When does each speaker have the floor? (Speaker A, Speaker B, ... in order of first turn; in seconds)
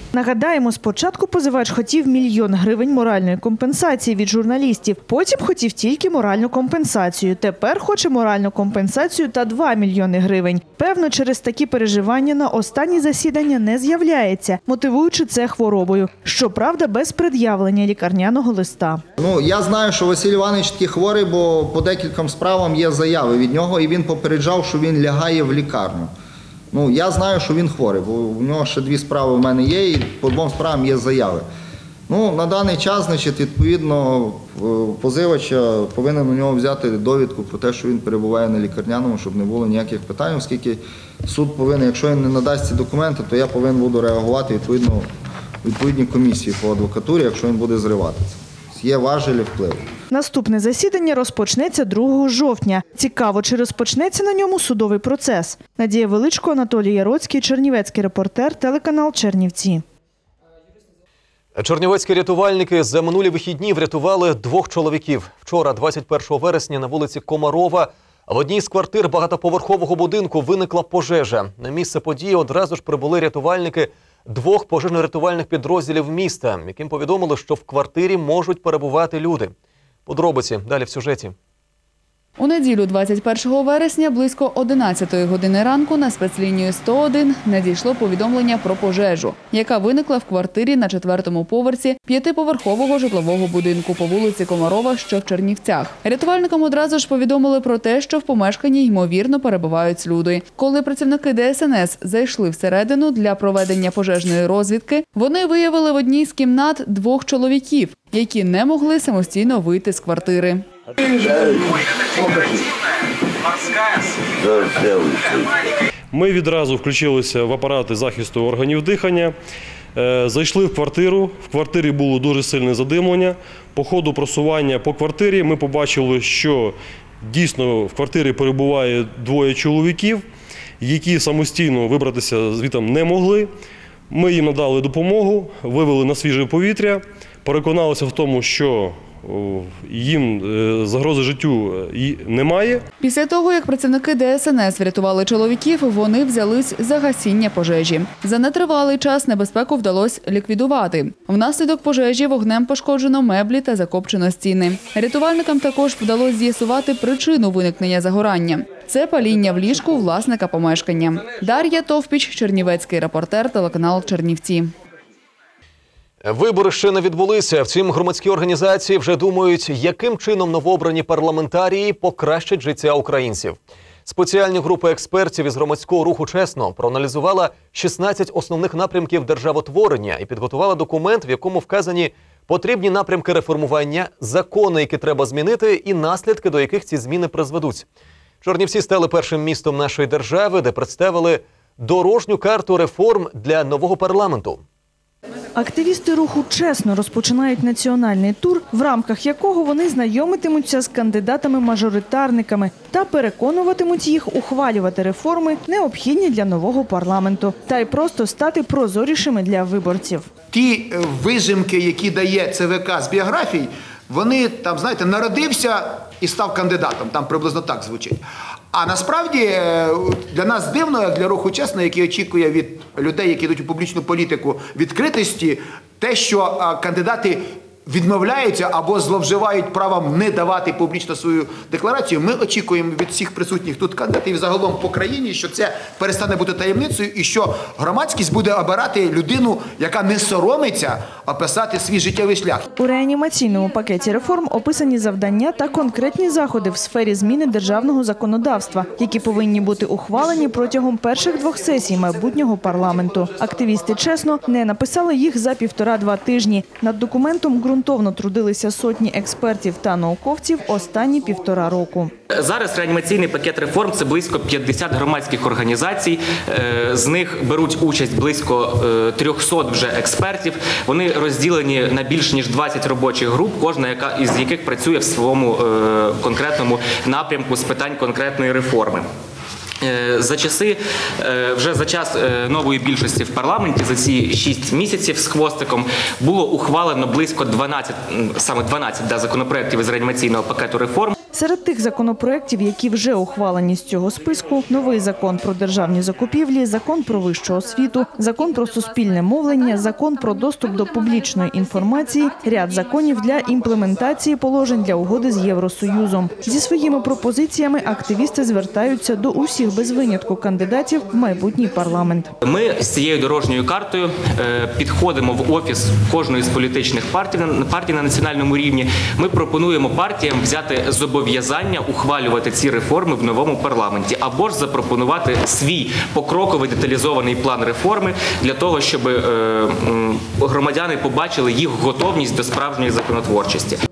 Speaker A: 0.1-19.0, 50.1-59.8, 195.6-210.3, 242.7-262.1, 291.3-312.3
Speaker B: 19.2-26.1, 26.7-31.4, 32.1-45.1, 45.6-49.9
Speaker C: 61.5-79.5, 80.0-81.3, 166.2-187.9, 188.4-194.6
Speaker D: 82.4-110.7, 143.0-164.7
Speaker E: 116.1-119.3, 119.9-130.2, 130.8-133.5, 134.1-142.8
Speaker F: 210.5-218.2, 218.7-242.7
Speaker G: 262.3-279.1, 279.8-291.1, 312.4-333.8